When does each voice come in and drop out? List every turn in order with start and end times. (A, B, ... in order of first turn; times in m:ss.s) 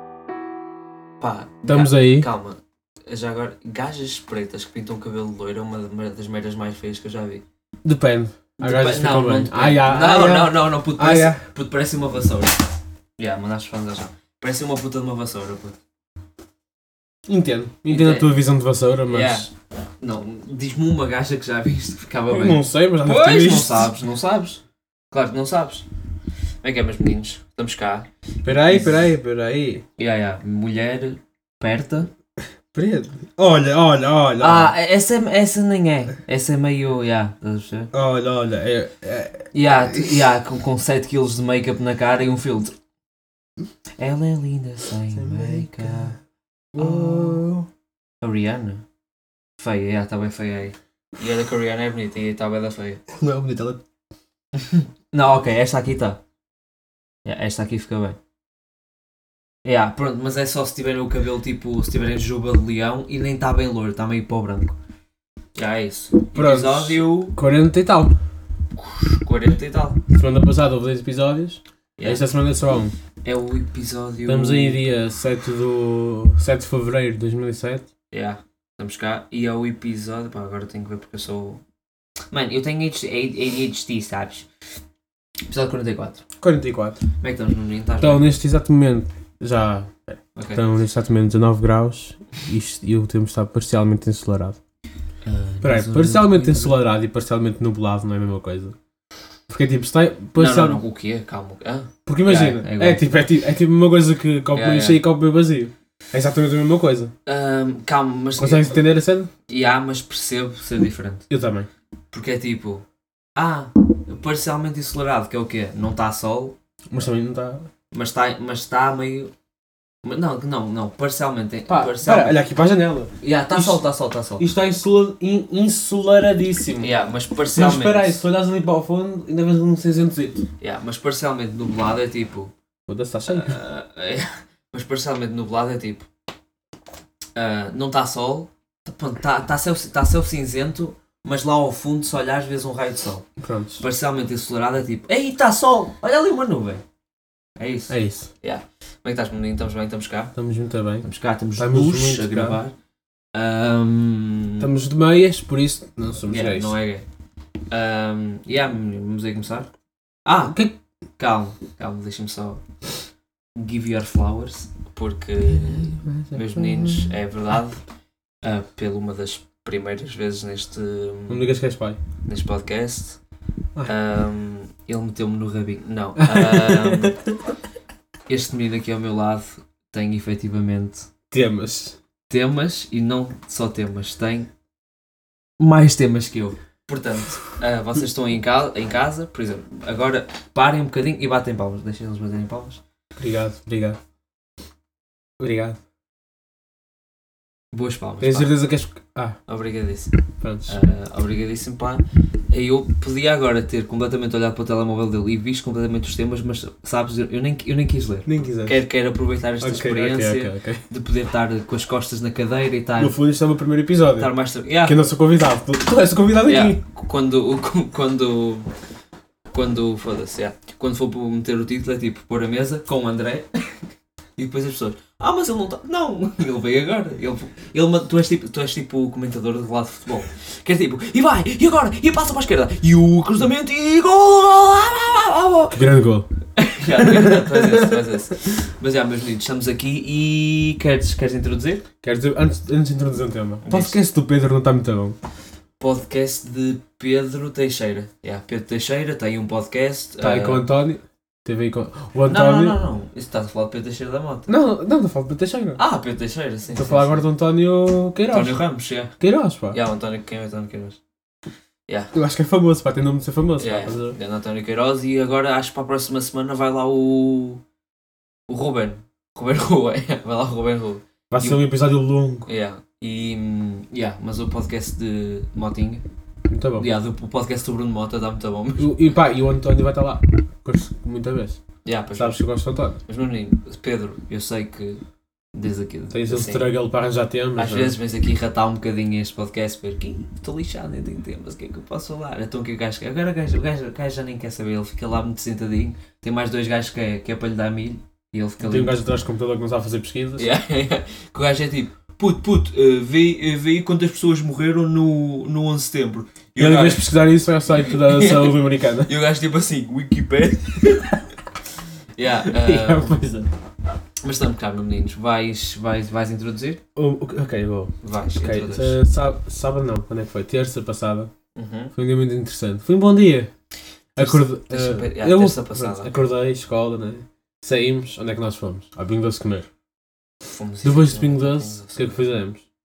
0:01.2-0:07.4 A
0:01.6-0:02.3 B
0:07.8-0:11.4 B
0:08.6-0:12.6 A
0:13.2-0:15.8 A
0:17.3-0:19.5 B
0:17.9-0:18.3 A
0:19.1-0:25.9 A
0:22.3-0:23.9 B
0:26.6-0:29.1 A
0:28.4-0:29.8 B
0:30.0-0:32.1 A
0:32.7-0:34.7 B
0:34.4-0:37.9 A
0:37.9-0:40.2 B
0:39.5-0:42.8 A
0:44.0-0:46.2 A
0:45.1-0:46.1 B
0:46.7-0:47.5 B
0:46.8-0:47.7 A
0:48.2-0:48.8 A
0:49.6-0:53.0 A
0:53.1-0:53.8 B
0:54.6-0:56.2 A
0:57.2-0:58.2 A
0:59.6-1:04.8 A
1:05.6-1:07.4 A
1:06.3-1:08.2 B
1:09.1-1:10.0 A
1:10.1-1:13.0 B
1:12.0-1:12.2 A
1:13.2-1:14.8 A
1:14.3-1:17.8 B
1:18.1-1:21.6 A
1:22.3-1:24.5 A
1:25.5-1:26.2 A
1:26.4-1:27.0 B
1:27.2-1:28.2 A
1:28.0-1:34.6 B
1:30.4-1:30.6 A
1:35.2-1:36.8 A
1:35.6-1:38.8 B
1:39.5-1:40.8 B
1:40.4-1:43.0 A
1:42.1-1:47.1 B
1:44.5-1:45.0 A
1:47.3-1:48.7 A
1:48.4-1:49.3 B
1:49.5-1:51.3 A
1:51.3-1:51.7 B
1:52.1-1:52.8 A
1:53.4-1:56.6 A
1:56.9-1:57.7 B
1:57.9-1:59.3 A
2:00.0-2:02.4 A
2:01.7-2:03.8 B
2:03.2-2:04.5 A
2:04.4-2:06.9 B
2:06.8-2:08.2 A
2:07.5-2:10.5 B
2:10.6-2:12.5 A
2:12.9-2:13.6 B
2:13.3-2:16.1 A
2:17.4-2:23.3 A
2:23.4-2:23.8 B
2:23.8-2:26.8 A
2:27.6-2:30.3 A
2:27.9-2:28.3 B
2:30.4-2:31.1 B
2:31.0-2:32.7 A
2:31.6-2:32.6 B
2:33.3-2:34.7 A
2:34.6-2:36.7 B
2:36.3-2:37.1 A
2:37.7-2:39.7 A
2:40.2-2:40.6 A
2:40.5-2:40.8 B
2:41.2-2:42.6 A
2:43.6-2:47.8 A
2:45.5-2:47.1 B
2:48.4-2:51.5 A
2:51.3-2:52.0 B
2:52.3-2:53.2 A
2:53.8-2:57.2 A
2:56.2-2:57.2 B
2:58.3-3:01.1 A
3:01.3-3:02.0 B
3:02.3-3:04.5 A
3:05.6-3:12.8 A
3:13.2-3:14.0 B
3:15.4-3:15.8 B
3:17.7-3:18.6 A
3:18.2-3:19.4 B
3:19.5-3:33.1 A
3:20.4-3:20.9 B
3:28.3-3:28.8 B
3:29.6-3:30.8 B
3:33.0-3:34.3 B
3:34.2-3:35.0 A
3:34.8-3:36.8 B
3:36.5-3:38.7 A
3:39.5-3:43.5 A
3:44.4-3:55.8 A
3:55.7-3:56.3 B
3:56.6-4:01.8 A
3:57.0-3:58.0 B
4:02.0-4:05.2 B
4:03.6-4:04.0 A
4:05.8-4:10.6 A
4:10.2-4:12.8 B
4:12.3-4:14.5 A
4:14.5-4:15.8 B
4:15.8-4:17.2 A
4:16.7-4:18.6 B
4:18.3-4:19.2 A
4:19.2-4:19.8 B
4:19.7-4:21.0 A
4:21.9-4:22.1 A
4:22.1-4:24.2 B
4:23.6-4:27.6 A
4:28.5-4:31.6 A
4:31.3-4:32.5 B
4:32.5-4:36.0 A
4:36.5-4:36.9 B
4:36.8-4:39.0 A
4:38.8-4:41.6 B
4:41.8-4:42.4 A
4:42.2-4:43.0 B
4:43.1-4:45.0 A
4:45.5-4:46.7 A
4:46.1-4:48.0 B
4:47.6-4:59.0 A
4:58.6-5:00.5 B
5:00.4-5:07.1 A
5:06.6-5:09.1 B
5:07.8-5:11.2 A
5:12.2-5:13.2 A
5:12.5-5:13.5 B
5:14.2-5:16.8 A
5:17.0-5:21.3 B
5:18.0-5:19.0 A
5:21.6-5:21.9 A
5:22.0-5:23.5 B
5:24.2-5:29.7 B
5:24.2-5:26.1 A
5:30.5-5:32.2 A
5:30.8-5:32.6 B